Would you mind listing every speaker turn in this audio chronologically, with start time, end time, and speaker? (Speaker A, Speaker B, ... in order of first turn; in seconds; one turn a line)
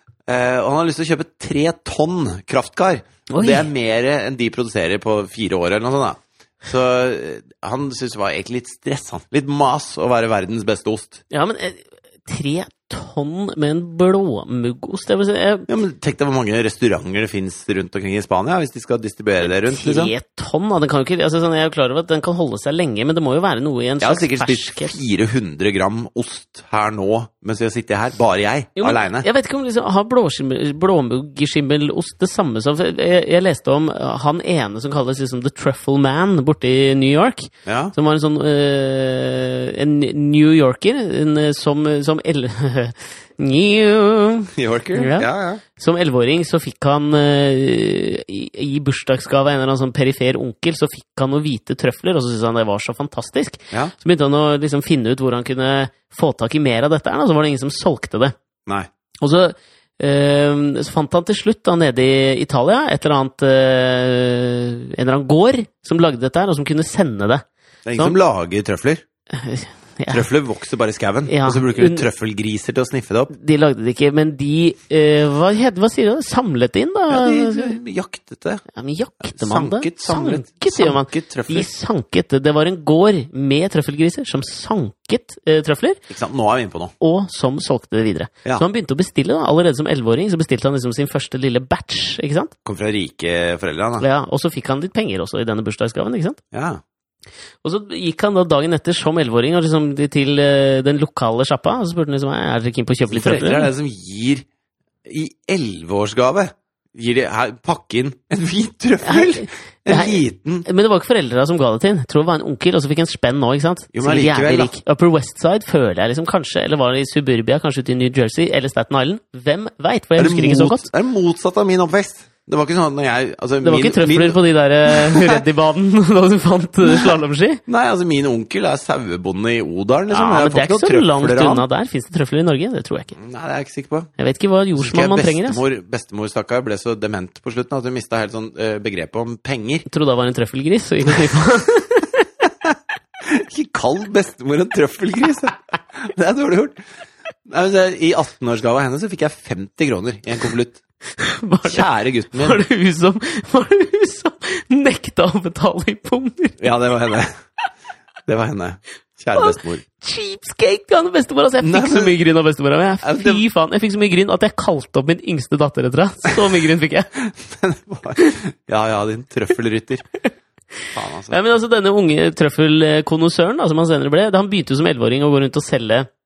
Speaker A: 0.3-11.2
Speaker B: 3.3-3.7
Speaker B: 11.3-15.7
Speaker A: 15.7-20.1
Speaker B: 19.4-25.0
Speaker A: 24.0-29.3
Speaker B: 28.8-58.4
Speaker A: 37.7-38.0
Speaker A: 44.5-45.6
Speaker B: 59.2-67.5
Speaker A: 67.9-69.0
Speaker B: 69.3-70.3
Speaker A: 70.1-73.3
Speaker B: 71.3-72.1
Speaker B: 73.3-77.8
Speaker A: 77.1-78.6
Speaker B: 78.7-86.0
Speaker A: 79.2-81.7
Speaker A: 86.1-86.9
Speaker B: 87.0-92.5
Speaker A: 92.7-94.1
Speaker B: 94.0-96.4
Speaker A: 96.5-96.8
Speaker B: 97.6-103.7
Speaker A: 103.1-104.5
Speaker A: 105.1-110.7
Speaker B: 109.0-120.9
Speaker A: 113.9-114.7
Speaker A: 120.2-125.4
Speaker B: 123.6-127.6
Speaker A: 127.7-131.7
Speaker B: 130.1-133.2
Speaker A: 133.2-134.1
Speaker B: 134.2-135.6
Speaker A: 134.8-139.8
Speaker B: 139.9-142.3
Speaker A: 143.2-146.8
Speaker A: 147.5-150.8
Speaker B: 151.2-156.6
Speaker A: 151.7-152.6
Speaker A: 156.6-157.4
Speaker A: 158.3-159.8
Speaker B: 159.3-167.1
Speaker A: 161.6-162.2
Speaker A: 163.0-163.4
Speaker A: 167.3-170.0
Speaker A: 170.9-171.4
Speaker B: 171.3-176.1